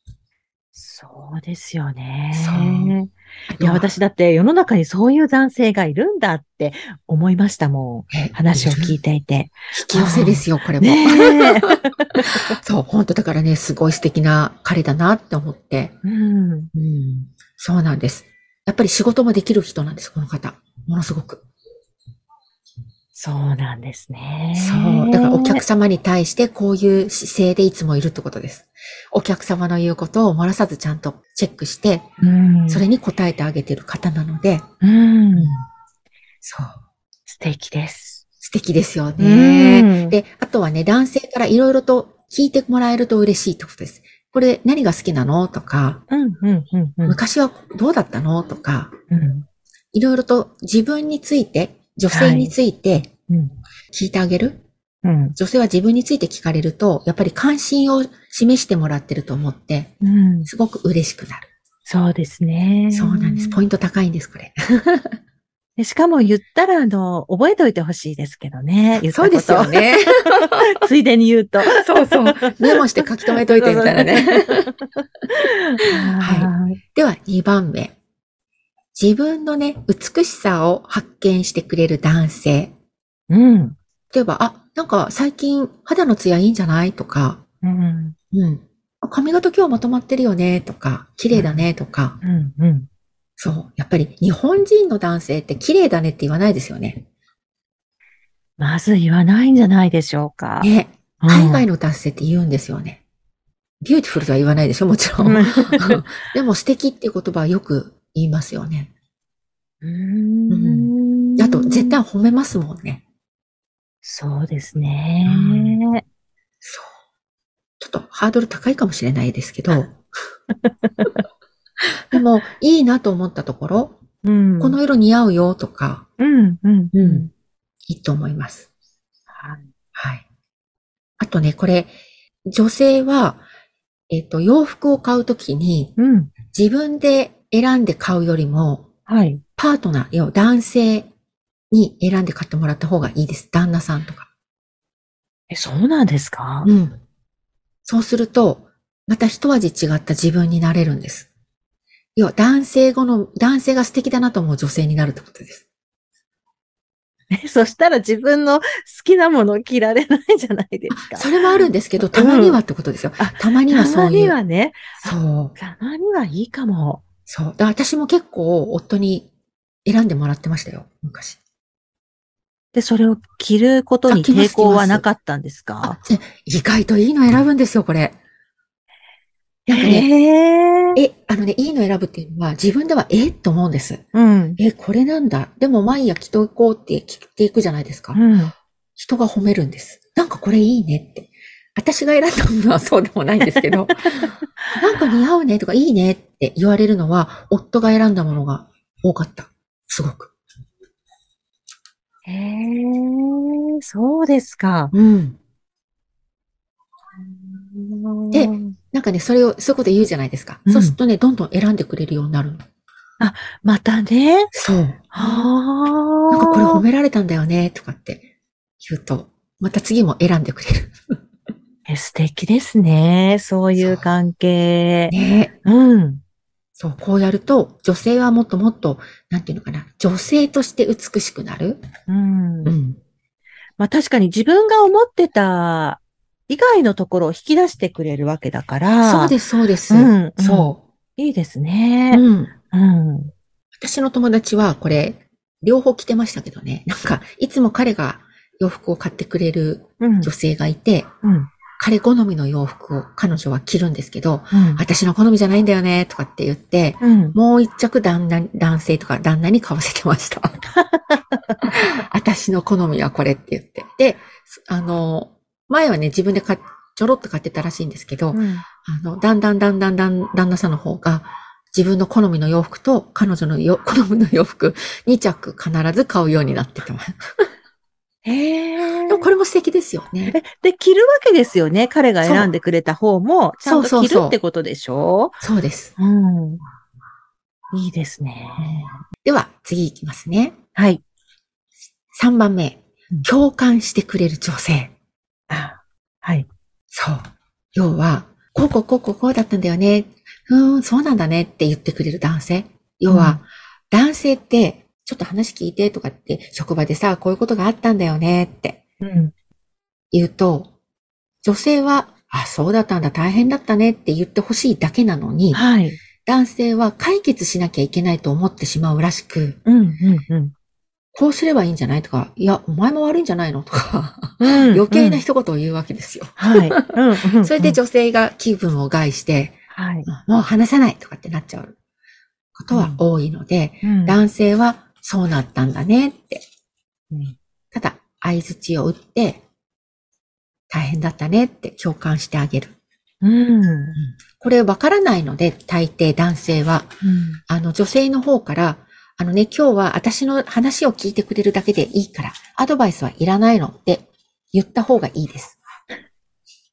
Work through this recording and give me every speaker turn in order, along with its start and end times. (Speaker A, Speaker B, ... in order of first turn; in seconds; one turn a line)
Speaker A: 0.7-12.5
Speaker B: 2.3-3.0
Speaker B: 3.5-3.9
Speaker B: 8.1-9.0
Speaker B: 9.7-11.7
Speaker B: 12.6-15.9
Speaker A: 16.0-16.7
Speaker B: 16.7-21.4
Speaker A: 23.1-25.6
Speaker B: 24.5-32.0
Speaker A: 32.2-32.8
Speaker B: 32.7-34.6
Speaker A: 34.8-35.5
Speaker B: 35.3-35.6
Speaker B: 36.4-36.7
Speaker A: 37.3-38.2
Speaker B: 38.4-46.0
Speaker A: 39.2-40.2
Speaker A: 46.1-47.2
Speaker B: 47.0-48.9
Speaker A: 49.1-49.4
Speaker B: 49.9-53.1
Speaker A: 52.1-52.5
Speaker B: 53.9-54.6
Speaker A: 55.0-55.4
Speaker B: 55.4-59.9
Speaker A: 60.0-60.5
Speaker B: 60.4-61.5
Speaker A: 61.9-63.6
Speaker B: 62.9-65.1
Speaker A: 65.8-72.8
Speaker B: 69.0-70.6
Speaker B: 71.7-74.7
Speaker A: 73.5-74.4
Speaker A: 75.3-76.8
Speaker B: 76.2-77.9
Speaker B: 78.9-82.7
Speaker A: 83.3-83.8
Speaker B: 84.1-87.4
Speaker A: 87.6-88.1
Speaker B: 88.3-92.2
Speaker A: 91.3-91.7
Speaker A: 92.2-92.9
Speaker B: 93.4-97.0
Speaker A: 98.6-101.7
Speaker B: 100.6-103.0
Speaker B: 103.8-108.9
Speaker A: 105.2-106.1
Speaker A: 109.8-111.9
Speaker B: 110.5-113.0
Speaker A: 114.0-116.0
Speaker B: 115.2-115.8
Speaker B: 116.6-116.9
Speaker B: 117.8-120.0
Speaker A: 120.6-121.2
Speaker B: 122.1-124.0
Speaker A: 124.2-124.8
Speaker B: 124.6-126.0
Speaker A: 126.2-127.3
Speaker B: 126.9-127.3
Speaker B: 127.9-128.7
Speaker A: 129.3-129.6
Speaker B: 129.9-130.2
Speaker B: 131.2-131.9
Speaker B: 132.5-133.4
Speaker B: 134.1-135.9
Speaker A: 136.0-136.3
Speaker B: 136.5-138.8
Speaker A: 139.1-139.4
Speaker B: 139.6-141.1
Speaker B: 141.7-144.3
Speaker A: 145.5-146.7
Speaker B: 146.6-147.0
Speaker B: 147.8-151.3
Speaker B: 152.2-155.6
Speaker A: 157.3-161.6
Speaker B: 160.9-164.4
Speaker A: 162.1-162.6
Speaker A: 163.2-167.0
Speaker B: 165.0-165.6
Speaker B: 167.3-169.3
Speaker B: 169.8-171.4
Speaker A: 172.7-176.0
Speaker B: 174.1-175.0
Speaker B: 175.8-178.2
Speaker A: 179.7-181.0
Speaker B: 179.7-180.1
Speaker B: 180.9-184.0
Speaker A: 184.1-184.6
Speaker B: 184.6-188.2
Speaker A: 188.1-188.5
Speaker B: 188.9-200.3
Speaker A: 194.2-194.8
Speaker A: 202.2-204.9
Speaker B: 204.9-205.4
Speaker A: 207.3-208.7
Speaker B: 208.3-212.6
Speaker A: 210.7-211.0
Speaker A: 213.2-214.5
Speaker B: 214.5-215.5
Speaker A: 215.1-216.8
Speaker B: 216.3-218.2
Speaker B: 218.8-220.9
Speaker A: 221.8-226.2
Speaker B: 223.8-224.1
Speaker B: 225.1-225.5
Speaker B: 226.8-231.8
Speaker A: 232.1-232.7
Speaker B: 232.6-233.0
Speaker A: 233.8-239.3
Speaker B: 239.0-240.8
Speaker A: 239.9-243.3
Speaker B: 242.1-242.5
Speaker B: 243.8-251.1
Speaker A: 250.0-250.3
Speaker A: 251.2-251.5
Speaker B: 251.8-260.6
Speaker A: 254.5-254.8
Speaker A: 257.0-257.4
Speaker A: 260.8-261.4
Speaker B: 261.7-277.2
Speaker A: 268.3-268.6
Speaker A: 278.2-279.2
Speaker B: 279.1-280.4
Speaker A: 280.3-285.4
Speaker B: 282.2-282.5
Speaker B: 283.6-284.4
Speaker B: 285.4-285.9
Speaker A: 286.0-286.6
Speaker A: 287.7-288.8
Speaker B: 288.6-290.6
Speaker A: 290.8-291.0
Speaker B: 292.1-294.9
Speaker A: 295.5-296.5
Speaker B: 296.9-308.8
Speaker A: 303.1-303.4
Speaker A: 309.0-309.3
Speaker B: 310.1-310.7
Speaker B: 311.4-315.6
Speaker A: 315.5-316.0
Speaker B: 316.2-319.6
Speaker A: 319.6-320.5
Speaker B: 321.1-326.9
Speaker A: 324.4-325.2
Speaker A: 326.4-327.8
Speaker B: 327.4-331.7
Speaker A: 329.7-330.1
Speaker B: 332.6-336.4
Speaker A: 332.7-333.0
Speaker A: 333.8-334.2
Speaker A: 337.1-337.4
Speaker B: 337.7-339.4
Speaker B: 340.7-342.7
Speaker A: 343.2-344.0
Speaker B: 344.0-346.9
Speaker A: 347.0-347.4
Speaker B: 347.5-355.6